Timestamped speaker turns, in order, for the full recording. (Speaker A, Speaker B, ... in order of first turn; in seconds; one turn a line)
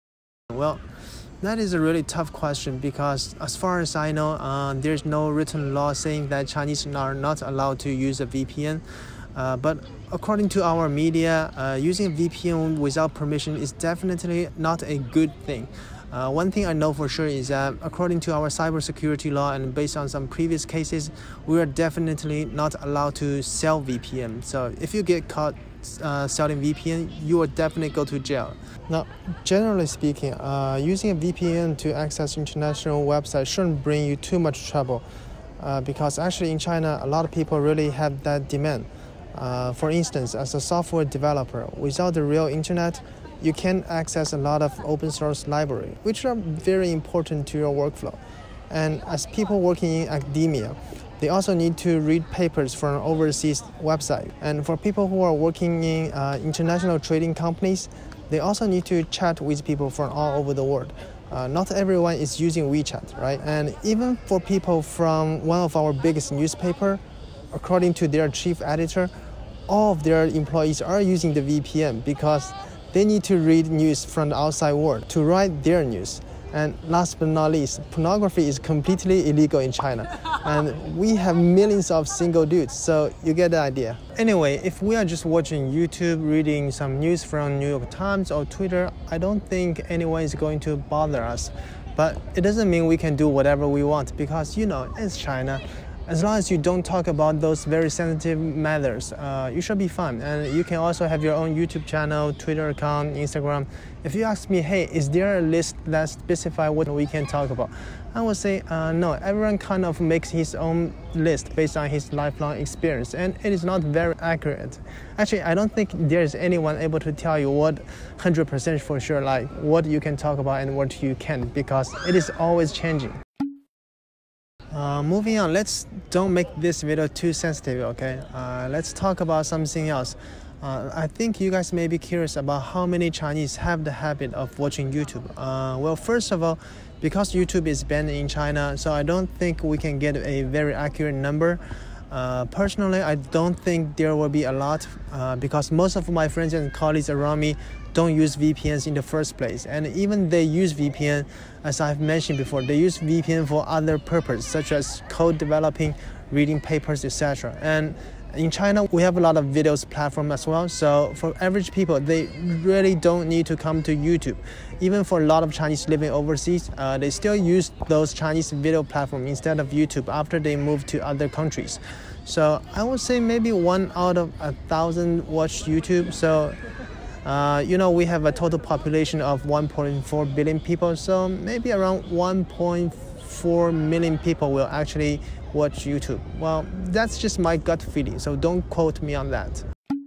Speaker A: 0.5-0.8
Speaker A: 1.4-35.0
Speaker A: 35.6-69.1
Speaker A: 69.7-123.2
Speaker A: 124.7-176.6
Speaker A: 177.2-189.6